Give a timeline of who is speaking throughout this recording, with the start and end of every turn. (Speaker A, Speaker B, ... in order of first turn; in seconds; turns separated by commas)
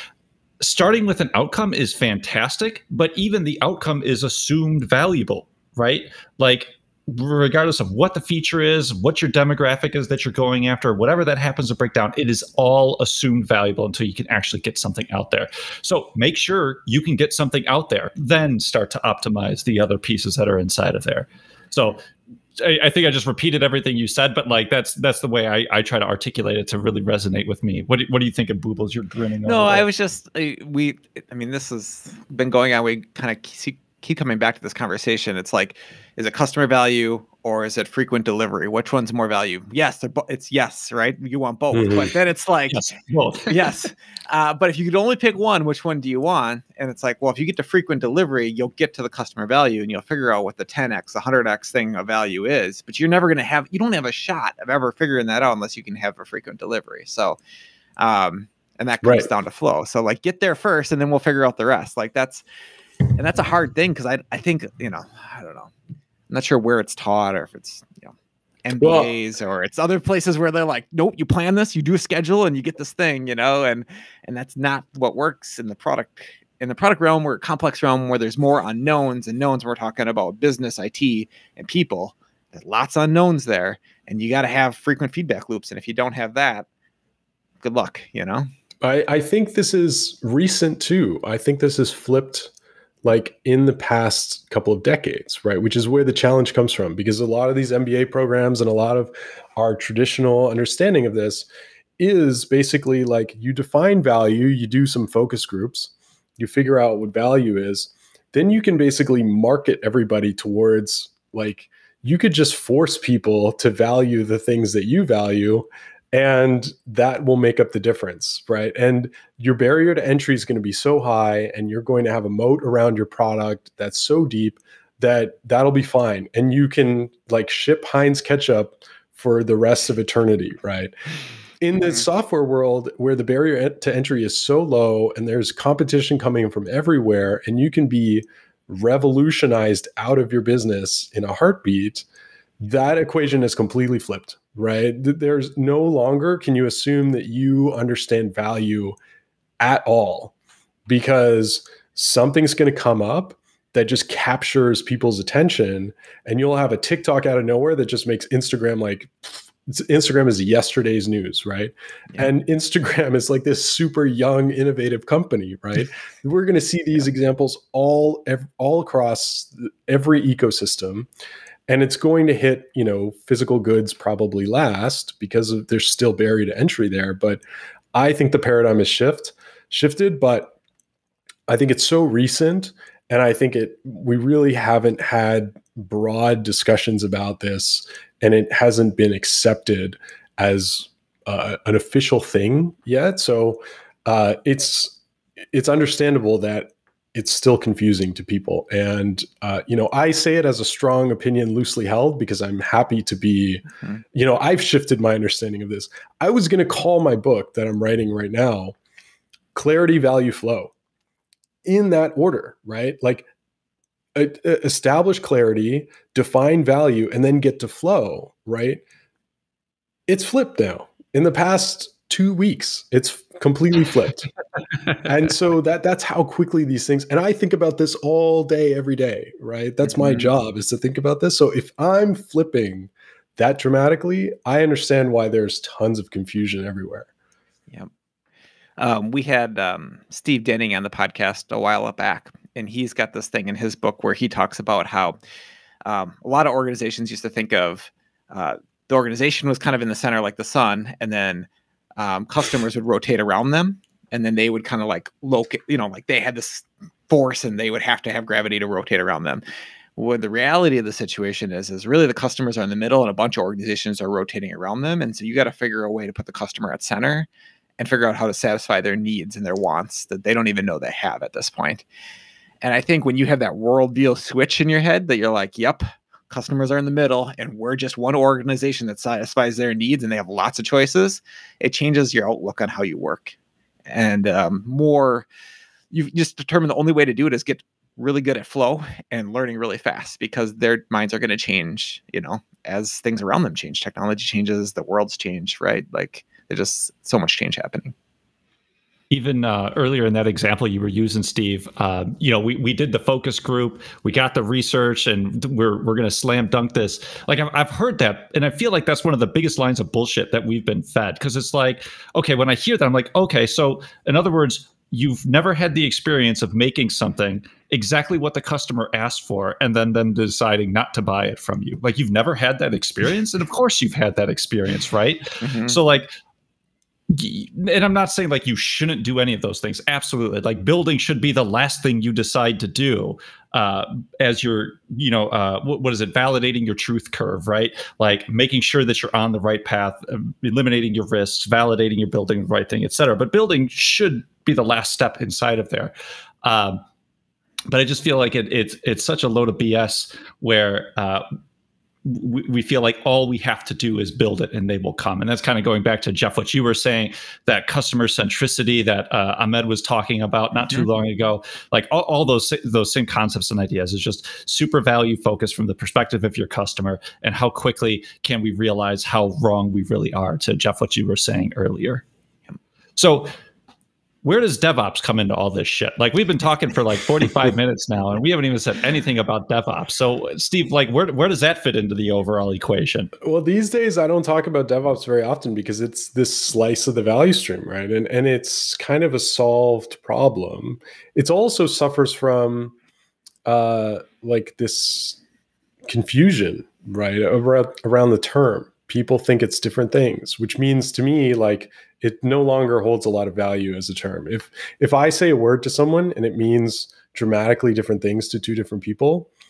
Speaker A: 0.6-22.0, Speaker A: 22.6-29.8, Speaker B: 29.4-42.8, Speaker C: 41.7-42.1, Speaker A: 42.7-43.7, Speaker B: 43.5-57.4, Speaker B: 58.0-62.4, Speaker C: 59.0-59.3, Speaker B: 63.1-65.7, Speaker B: 66.3-86.7, Speaker C: 68.8-69.1, Speaker B: 87.6-88.5, Speaker C: 88.8-92.5, Speaker C: 93.0-101.5, Speaker C: 102.0-130.9, Speaker C: 131.6-142.0, Speaker C: 142.6-149.0, Speaker C: 149.6-150.3, Speaker C: 150.9-171.1, Speaker C: 171.7-177.4, Speaker C: 177.9-180.6, Speaker C: 181.5-194.9, Speaker C: 195.5-208.7, Speaker C: 209.5-210.7, Speaker C: 211.6-213.3, Speaker C: 214.1-218.8, Speaker C: 220.1-224.3, Speaker C: 225.0-237.1, Speaker B: 230.0-230.3, Speaker B: 238.8-245.2, Speaker B: 245.8-259.4, Speaker B: 259.9-267.3, Speaker B: 267.8-271.8, Speaker B: 272.6-283.3, Speaker B: 283.9-285.3, Speaker B: 285.9-297.9, Speaker A: 299.1-326.1, Speaker B: 325.4-325.8, Speaker A: 327.1-346.8, Speaker A: 347.7-351.2, Speaker A: 352.0-372.0, Speaker A: 373.0-373.3, Speaker A: 374.2-383.1, Speaker C: 383.2-392.7, Speaker C: 393.4-395.2, Speaker C: 395.9-409.3